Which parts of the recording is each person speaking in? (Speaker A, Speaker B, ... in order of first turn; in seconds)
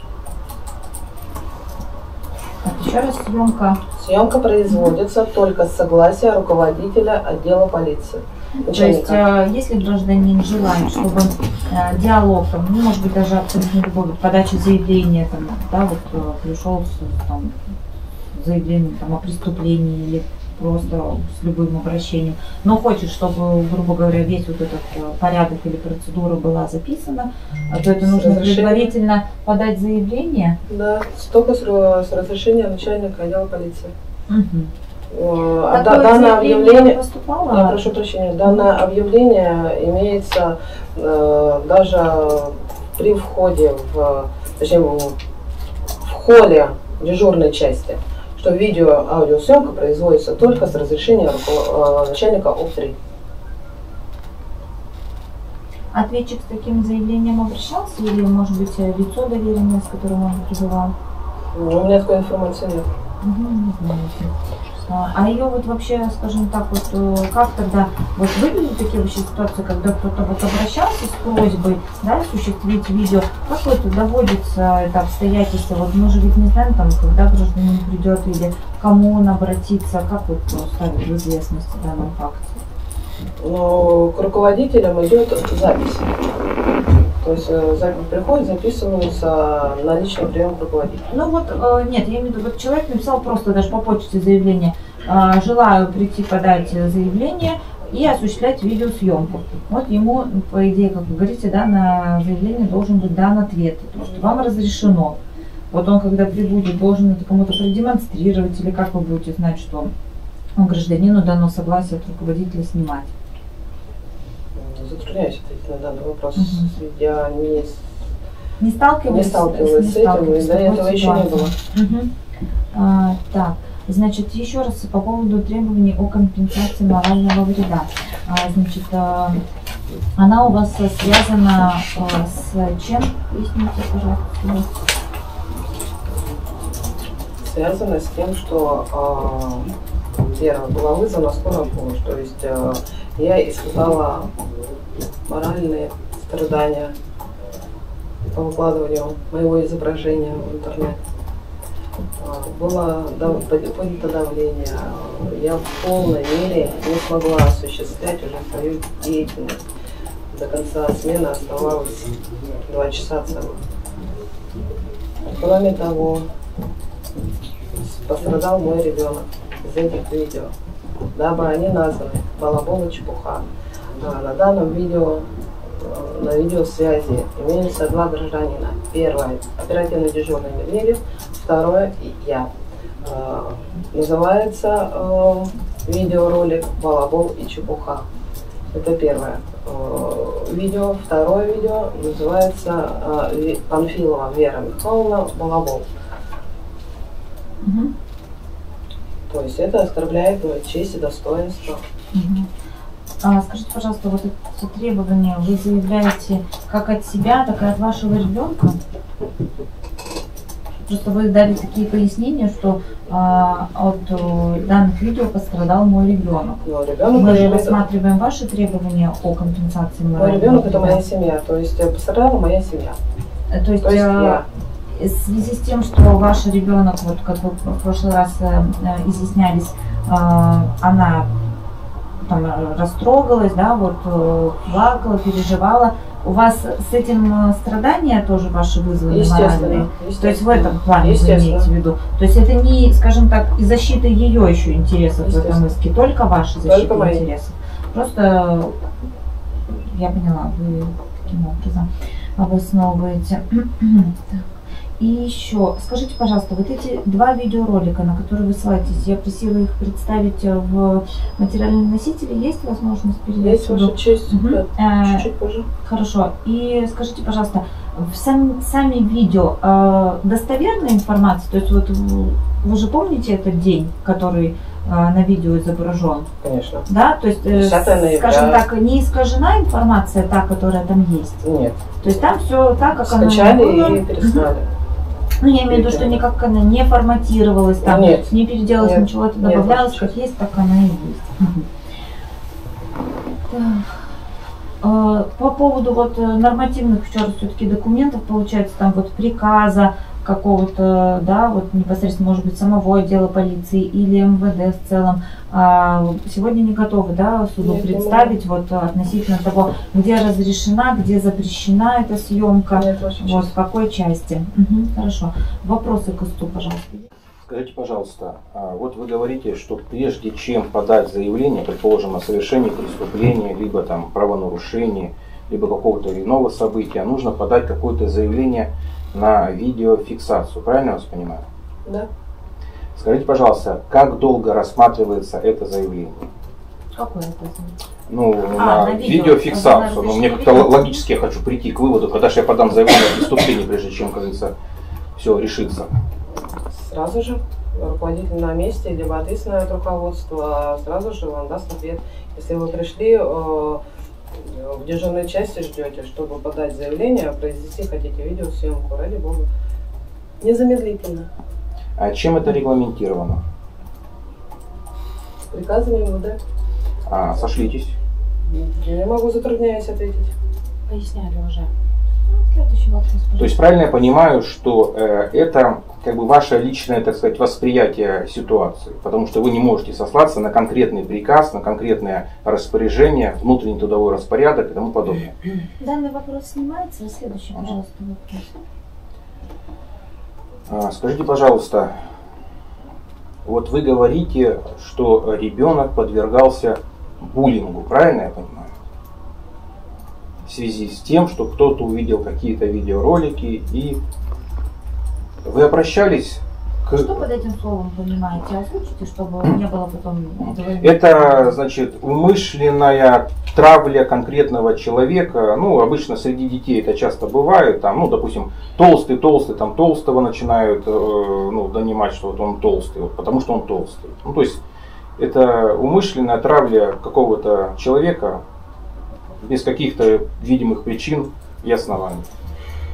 Speaker A: 2.6-3.8, 4.7-4.9, 8.7-17.6, 18.3-30.6, 34.3-34.7, 35.7-37.9, 55.9-60.9, 63.2-82.6, 91.1-105.2, 105.7-109.9, 110.5-113.1, 116.3-116.7, 118.6-122.1, 122.7-129.4, 130.1-134.8, 197.6-197.9, 202.1-202.5, 203.2-208.8, 210.8-221.0, 223.5-231.3, 232.2-248.8, 249.7-254.4, 255.0-265.3, 265.8-276.3, 276.9-281.4, 282.0-284.4, 285.4-291.7, 293.5-294.1, 294.8-317.1, 336.9-337.8, 338.5-341.1, 370.9-371.7, 372.3-373.6, 385.8-388.5, 406.9-411.6
Speaker B: 4.0-9.2, 28.0-28.9, 30.7-33.9, 35.1-37.0, 37.5-45.1, 46.0-53.0, 61.5-62.9, 83.4-86.0, 87.2-91.0, 114.5-117.8, 119.1-121.6, 137.4-139.7, 140.3-144.3, 145.3-146.9, 148.2-151.0, 152.2-159.6, 160.3-163.6, 165.3-166.3, 167.7-170.5, 171.1-173.4, 174.0-182.5, 183.0-188.0, 188.7-195.8, 199.3-201.8, 216.6-217.8, 220.2-223.0, 223.8-224.4, 239.1-241.7, 245.2-245.7, 246.6-247.2, 263.4-265.7, 276.4-276.9, 277.4-278.6, 281.4-281.8, 283.0-284.7, 285.7-286.2, 287.8-290.1, 307.6-308.4, 312.7-313.5, 346.7-353.8, 354.3-359.5, 360.4-361.3, 365.5-366.4, 368.5-370.3
Speaker C: 317.5-331.4, 332.9-336.3, 338.1-344.5, 345.1-346.0, 362.0-363.4, 367.1-367.9, 373.4-385.4, 390.7-391.9, 393.4-398.7, 400.4-404.0, 405.4-407.2, 410.4-424.6, 425.2-428.4, 429.4-432.2